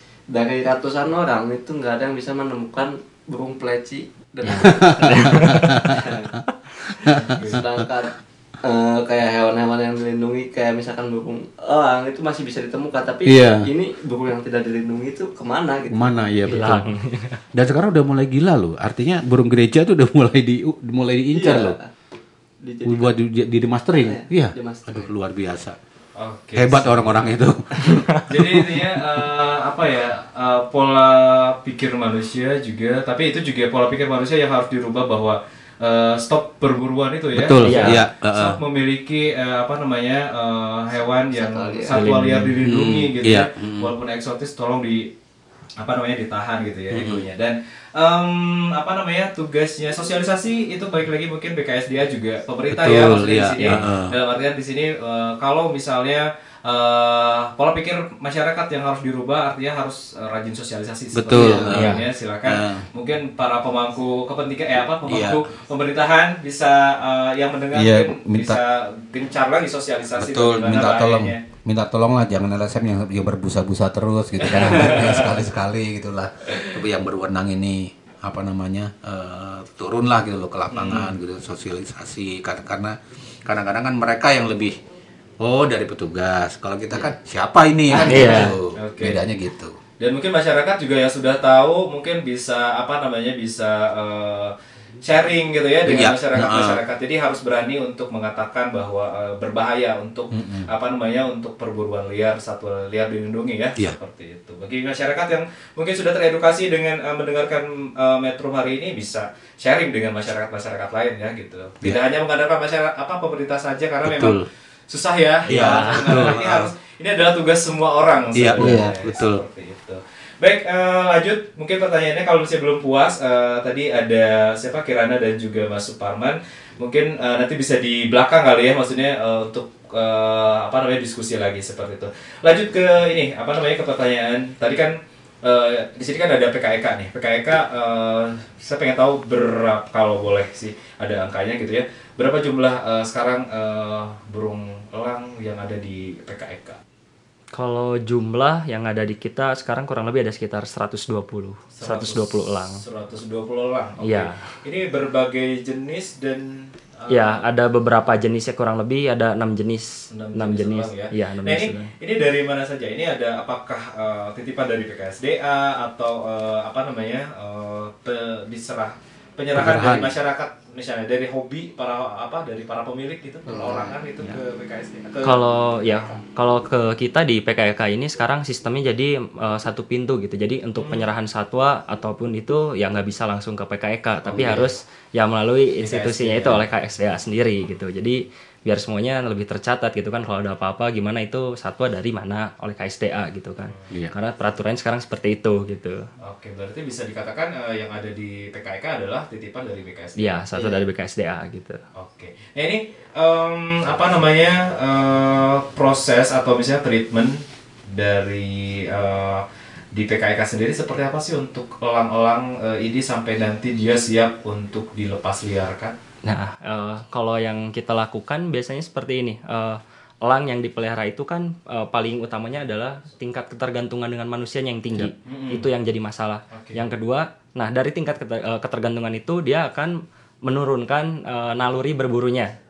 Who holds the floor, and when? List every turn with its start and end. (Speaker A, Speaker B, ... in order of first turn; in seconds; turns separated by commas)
Speaker A: 0.3-6.3, Speaker B: 4.5-5.9, Speaker C: 4.5-6.0, Speaker C: 7.0-7.4, Speaker D: 7.1-7.6, Speaker A: 7.5-8.1, Speaker A: 8.7-16.2, Speaker C: 13.2-13.7, Speaker C: 15.9-16.9, Speaker B: 16.4-17.4, Speaker C: 17.5-21.8, Speaker A: 21.3-21.9, Speaker A: 22.6-23.1, Speaker C: 22.8-25.8, Speaker A: 24.0-25.0, Speaker D: 26.2-27.4, Speaker C: 26.6-27.9, Speaker D: 28.3-45.1, Speaker C: 37.3-38.6, Speaker B: 37.6-38.0, Speaker A: 41.3-42.0, Speaker B: 41.9-42.6, Speaker C: 42.6-43.9, Speaker D: 45.8-71.4, Speaker C: 46.9-47.2, Speaker C: 52.7-54.1, Speaker C: 61.1-62.9, Speaker A: 61.3-61.7, Speaker B: 61.7-62.0, Speaker C: 65.1-65.4, Speaker C: 67.7-68.6, Speaker C: 70.2-84.8, Speaker D: 74.4-75.4, Speaker B: 74.5-75.0, Speaker D: 80.7-81.1, Speaker C: 85.4-89.8, Speaker B: 88.0-88.5, Speaker D: 88.8-89.2, Speaker D: 90.0-146.8, Speaker C: 95.8-96.8, Speaker C: 100.3-100.7, Speaker C: 114.0-114.5, Speaker C: 115.5-116.7, Speaker B: 115.5-116.3, Speaker C: 118.3-119.4, Speaker A: 118.6-118.9, Speaker B: 147.5-152.8, Speaker D: 151.7-157.4, Speaker B: 154.0-154.5, Speaker B: 157.1-161.9, Speaker D: 160.1-176.1, Speaker C: 169.5-170.1, Speaker A: 173.5-174.0, Speaker B: 175.2-196.0, Speaker D: 180.8-181.1, Speaker C: 184.3-184.6, Speaker D: 185.8-186.7, Speaker D: 196.2-200.4, Speaker B: 200.2-201.8, Speaker D: 201.9-207.4, Speaker D: 207.9-215.9, Speaker B: 216.2-232.5, Speaker D: 225.3-225.6, Speaker D: 226.5-226.8